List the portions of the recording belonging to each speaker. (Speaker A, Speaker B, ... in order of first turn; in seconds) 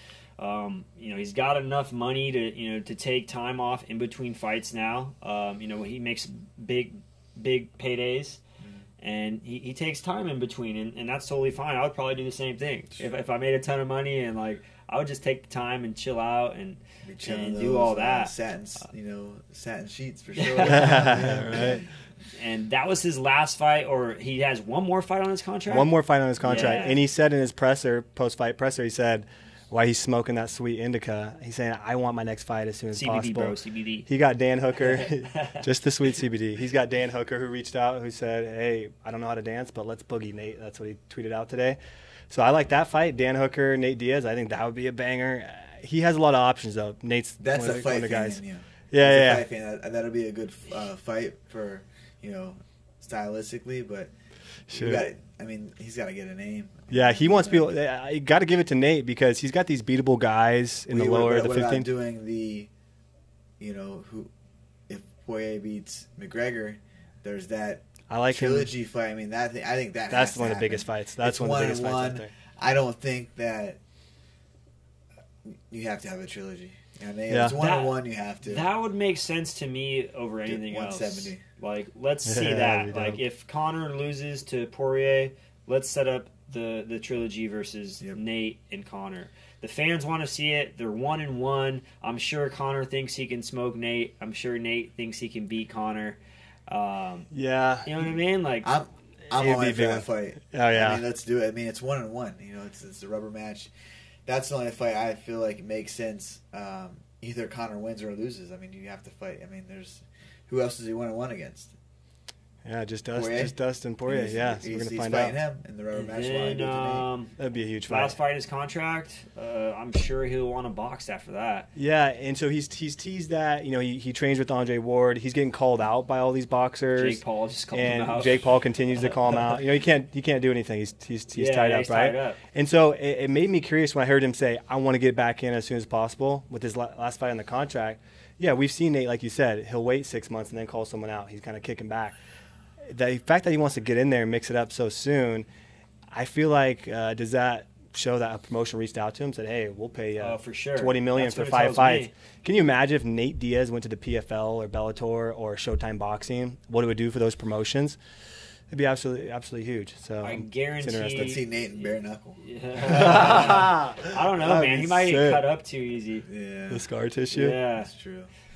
Speaker A: 0.4-8.4, 9.0-18.3, 20.4-21.1, 22.3-27.0, 32.9-34.1, 34.8-35.6, 77.6-97.3, 97.8-98.7, 115.9-117.3, 117.9-121.7, 126.9-129.6, 131.3-132.4, 150.2-152.1, 160.2-166.3, 167.3-167.9
Speaker B: 8.6-8.8, 17.0-21.9, 47.4-54.1, 54.7-57.7, 60.9-62.7, 63.6-64.3, 64.9-73.8, 75.5-78.7, 80.5-81.4, 98.6-103.7, 104.2-111.7, 113.1-117.1, 161.2-163.6, 166.2-166.8, 167.8-168.3
Speaker C: 20.7-21.8, 25.7-33.5, 34.1-41.8, 42.3-48.4, 48.9-49.4, 54.7-55.0, 56.9-61.9, 68.1-68.7, 70.1-72.3, 77.3-77.6, 82.2-83.2, 97.3-97.9, 99.3-101.0, 112.6-115.4, 117.4-118.2, 121.8-127.2, 127.7-142.2, 142.9-145.5, 146.1-158.0, 158.7-161.4, 162.9-165.4, 166.7-167.6